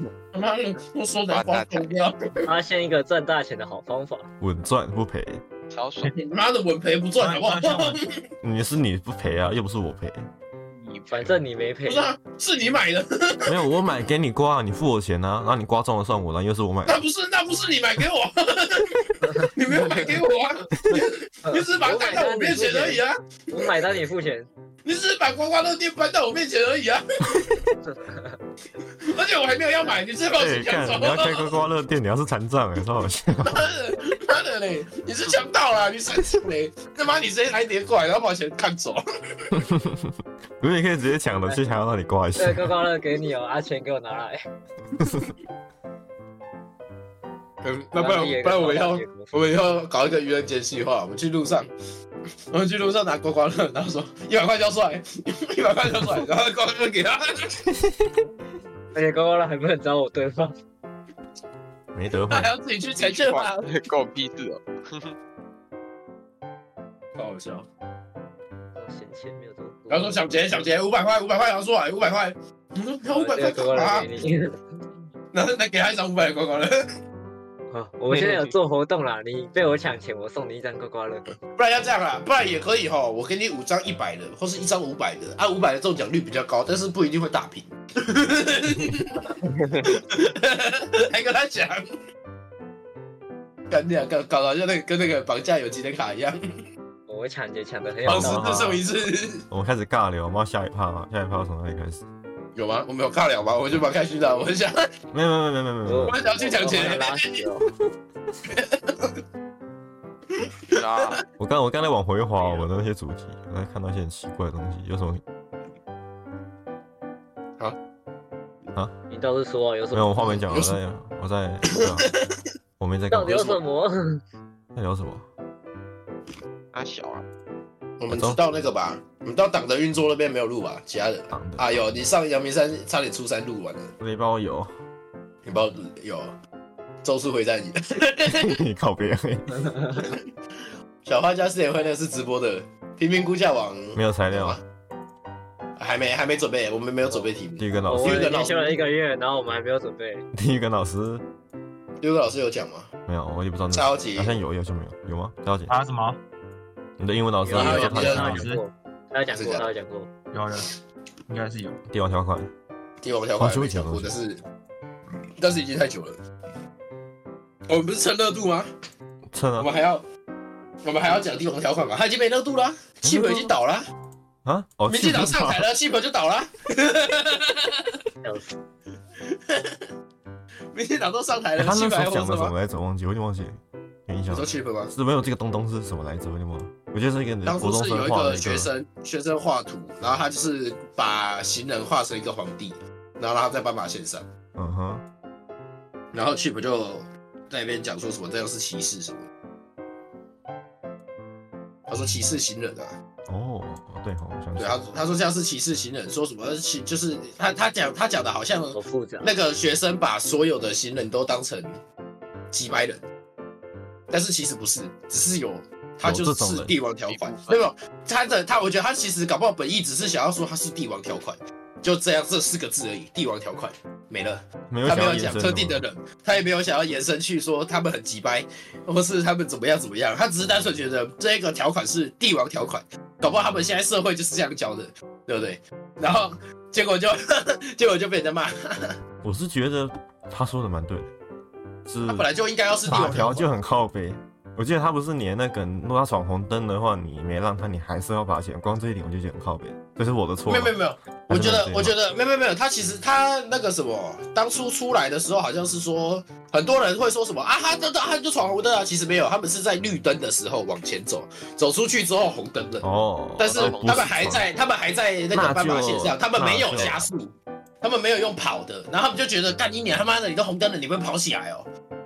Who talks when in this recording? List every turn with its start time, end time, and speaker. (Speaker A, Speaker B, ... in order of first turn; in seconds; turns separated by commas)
Speaker A: 0.3-2.5, Speaker B: 1.3-2.0, Speaker C: 2.5-4.3, Speaker D: 4.4-5.4, Speaker B: 5.7-6.1, Speaker A: 6.0-8.2, Speaker E: 7.2-8.0, Speaker D: 8.4-10.3, Speaker B: 10.8-11.3, Speaker C: 11.1-12.1, Speaker A: 11.9-13.6, Speaker D: 13.5-17.0, Speaker A: 16.9-23.9, Speaker D: 20.8-21.0, Speaker C: 21.5-24.5, Speaker A: 24.9-27.5, Speaker C: 27.9-28.4, Speaker A: 29.0-31.6, Speaker D: 30.4-33.6, Speaker A: 33.4-39.6, Speaker D: 39.5-42.8, Speaker C: 42.4-44.5, Speaker D: 45.0-45.3, Speaker A: 47.6-51.7, Speaker C: 48.0-49.3, Speaker A: 52.5-57.6, Speaker C: 58.9-60.6, Speaker D: 61.9-62.5, Speaker A: 62.3-63.7, Speaker B: 63.0-65.1, Speaker A: 67.2-67.7, Speaker C: 68.8-70.7, Speaker A: 69.9-74.1, Speaker C: 73.1-74.6, Speaker A: 75.3-76.8, Speaker C: 77.7-81.3, Speaker B: 78.1-78.5, Speaker A: 81.6-91.9, Speaker A: 93.7-96.4, Speaker C: 97.1-98.8, Speaker D: 98.0-98.8, Speaker A: 98.1-99.5, Speaker D: 99.5-102.0, Speaker A: 102.5-104.9, Speaker D: 105.1-106.2, Speaker C: 105.8-107.7, Speaker A: 106.0-107.3, Speaker A: 108.5-109.2, Speaker A: 110.3-111.2, Speaker B: 110.7-111.2, Speaker D: 111.4-115.2, Speaker C: 119.1-120.3, Speaker D: 119.9-122.1, Speaker A: 120.2-120.8, Speaker A: 121.7-122.3, Speaker D: 122.8-123.6, Speaker C: 123.1-124.2, Speaker D: 124.8-125.3, Speaker B: 126.7-127.2, Speaker A: 128.0-133.9, Speaker D: 128.1-128.6, Speaker D: 131.3-132.1, Speaker D: 134.0-134.7, Speaker A: 135.4-136.3, Speaker A: 137.0-138.6, Speaker D: 138.3-139.7, Speaker A: 141.0-144.6, Speaker D: 143.9-144.6, Speaker A: 145.8-148.8, Speaker D: 147.6-148.3, Speaker C: 147.8-150.2, Speaker D: 150.3-151.2, Speaker A: 152.0-152.9, Speaker D: 153.1-155.8, Speaker A: 153.7-154.4, Speaker E: 155.7-156.2, Speaker D: 157.0-158.5, Speaker A: 157.5-158.4, Speaker C: 157.5-160.1, Speaker E: 157.6-158.6, Speaker A: 159.3-159.7, Speaker E: 160.3-160.7, Speaker E: 161.3-161.8, Speaker D: 161.9-162.5, Speaker A: 163.0-164.4, Speaker D: 163.4-164.1, Speaker A: 165.4-166.2, Speaker A: 167.7-168.7, Speaker D: 169.3-169.7, Speaker A: 169.6-170.1, Speaker A: 170.8-173.8, Speaker D: 173.0-173.5, Speaker D: 174.4-175.7, Speaker A: 174.9-178.0, Speaker C: 178.2-178.5, Speaker A: 179.2-179.8, Speaker A: 180.7-182.5, Speaker D: 181.6-188.7, Speaker A: 184.3-184.9, Speaker A: 187.4-194.3, Speaker D: 194.5-195.0, Speaker A: 196.1-199.3, Speaker A: 201.9-203.0, Speaker D: 202.0-202.3, Speaker D: 203.3-204.8, Speaker A: 204.6-211.8, Speaker C: 208.7-209.3, Speaker A: 212.5-213.0, Speaker A: 214.1-238.9, Speaker D: 216.0-216.7, Speaker B: 217.1-217.6, Speaker D: 224.7-225.8, Speaker D: 239.2-241.1, Speaker D: 241.9-242.3, Speaker A: 242.0-243.5, Speaker D: 242.9-250.8, Speaker A: 250.5-271.7, Speaker D: 251.3-252.0, Speaker D: 262.8-264.4, Speaker B: 263.5-264.1, Speaker D: 265.3-267.1